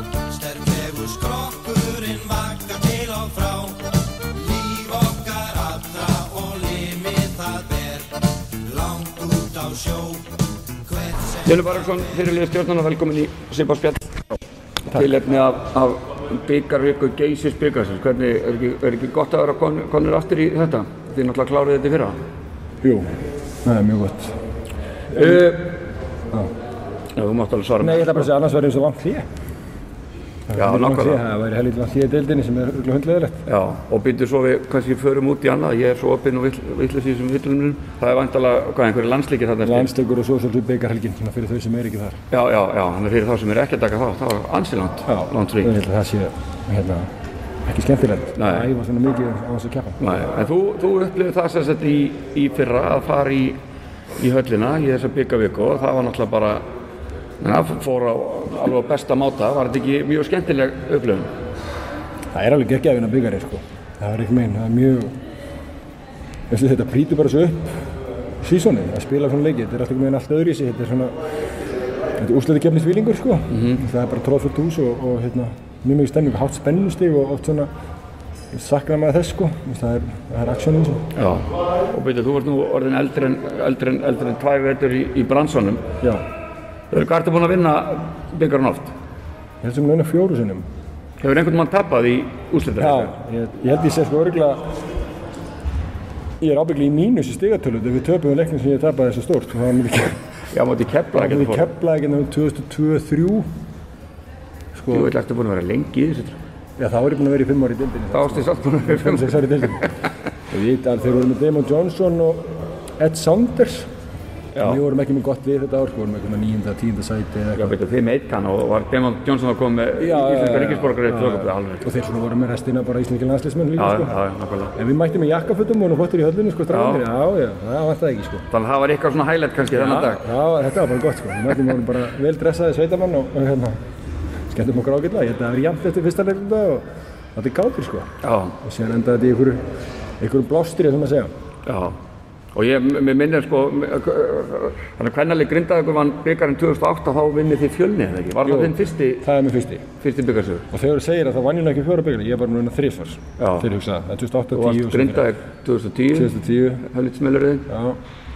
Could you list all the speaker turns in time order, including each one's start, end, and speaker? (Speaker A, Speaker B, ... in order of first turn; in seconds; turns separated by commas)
Speaker A: 0.3-10.2, Speaker B: 11.4-14.1, Speaker B: 14.9-22.1, Speaker C: 22.8-23.1, Speaker C: 23.6-24.4, Speaker C: 25.1-25.5, Speaker B: 25.1-25.8, Speaker B: 27.1-28.3, Speaker C: 27.8-29.2, Speaker C: 30.5-33.5, Speaker B: 30.5-31.2, Speaker B: 33.5-39.9, Speaker C: 39.6-42.2, Speaker B: 42.3-45.7, Speaker C: 45.1-47.1, Speaker C: 47.7-50.0, Speaker B: 48.4-48.7, Speaker B: 50.0-53.6, Speaker B: 54.2-56.6, Speaker B: 57.4-61.3, Speaker C: 62.3-65.2, Speaker C: 66.5-67.7, Speaker C: 68.4-71.1, Speaker C: 72.2-77.7, Speaker C: 78.5-81.0, Speaker B: 81.1-85.8, Speaker B: 86.9-88.9, Speaker C: 89.6-90.6, Speaker B: 91.2-93.1, Speaker C: 92.8-94.6, Speaker C: 96.4-100.2, Speaker B: 100.5-101.7, Speaker C: 101.1-103.5, Speaker C: 104.8-105.1, Speaker B: 104.9-106.4, Speaker C: 106.8-109.9, Speaker B: 108.1-109.9, Speaker C: 110.5-113.9, Speaker B: 114.5-114.8, Speaker C: 114.6-117.8, Speaker B: 117.6-121.9, Speaker C: 120.0-124.1, Speaker B: 123.8-124.7, Speaker C: 124.8-128.4, Speaker B: 126.7-127.0, Speaker B: 128.5-130.2, Speaker C: 129.7-133.8, Speaker C: 134.5-136.8, Speaker C: 137.3-138.1, Speaker B: 138.2-138.6, Speaker C: 138.6-139.6, Speaker C: 140.2-141.3, Speaker B: 141.7-142.0, Speaker B: 142.5-149.3, Speaker C: 148.4-149.8, Speaker B: 150.0-150.6, Speaker C: 150.7-155.3, Speaker B: 153.4-153.7, Speaker B: 154.5-157.7, Speaker C: 156.1-156.8, Speaker C: 157.7-158.0